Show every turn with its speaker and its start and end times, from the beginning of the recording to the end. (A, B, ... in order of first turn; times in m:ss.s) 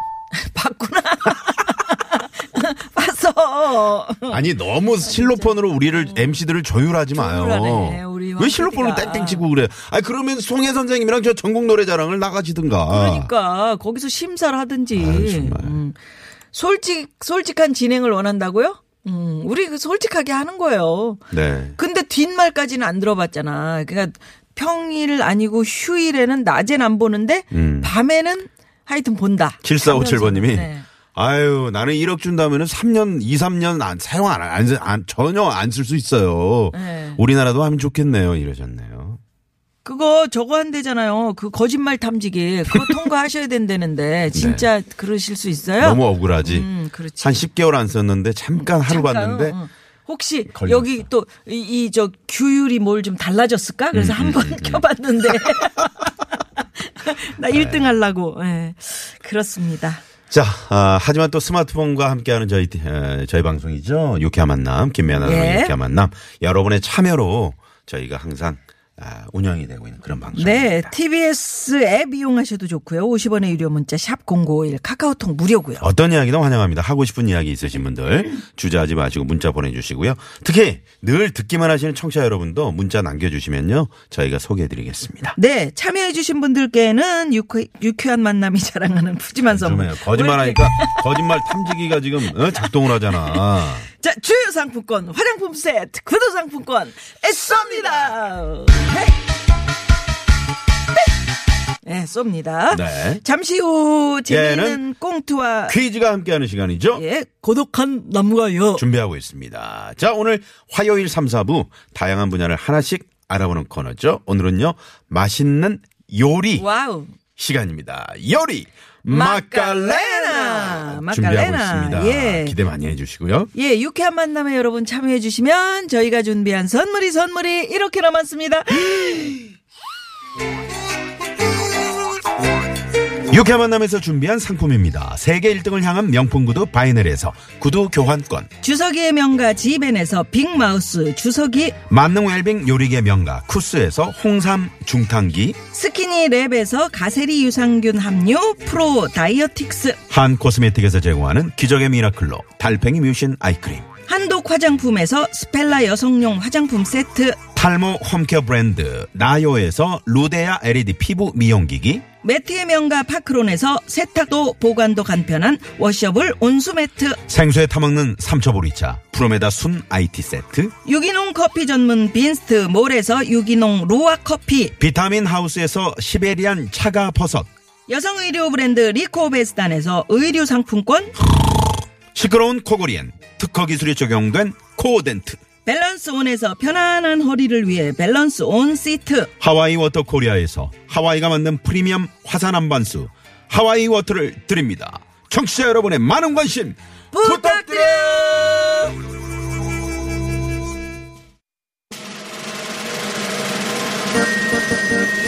0:00.3-0:06.3 A
0:04.3-0:13.3 B
0:07.1-0:09.4 A
0:12.9-0:16.0 A
0:15.0-0:15.8 B
0:16.5-0:21.2 A
0:21.3-0:21.8 B
0:21.8-0:30.9 A
0:27.5-0:27.9 B
0:29.6-0:39.2 B
0:36.7-0:37.2 A
0:39.8-0:47.4 A
0:44.3-0:44.7 B
0:45.8-0:46.7 B
0:47.2-0:49.6 B
0:48.6-1:00.0 A
0:50.5-0:51.1 B
0:53.9-0:56.1 B
0:57.5-0:57.9 B
1:00.3-1:10.9 B
1:05.2-1:05.8 A
1:10.4-1:15.9 A
1:15.8-1:25.4 B
1:25.4-1:39.2 A
1:29.5-1:33.9 B
1:41.8-1:45.8 A
1:42.7-1:43.2 B
1:44.3-1:44.8 B
1:45.7-1:47.0 B
1:46.9-1:48.9 A
1:48.8-1:56.7 B
1:56.6-1:57.2 A
1:57.4-2:03.5 B
1:59.1-2:02.6 A
2:03.5-2:09.4 A
2:13.3-2:18.5 B
2:18.6-2:21.8 A
2:21.9-2:25.6 B
2:25.7-2:30.0 A
2:30.1-2:33.9 B
2:34.1-2:37.4 A
2:37.6-2:42.0 B
2:42.2-2:47.2 A
2:47.3-2:50.7 B
2:50.8-2:54.8 A
2:54.8-2:57.5 B
2:57.9-3:01.1 A
3:02.1-3:05.4 B
3:05.6-3:09.3 A
3:09.4-3:19.0 B
3:17.1-3:18.3 A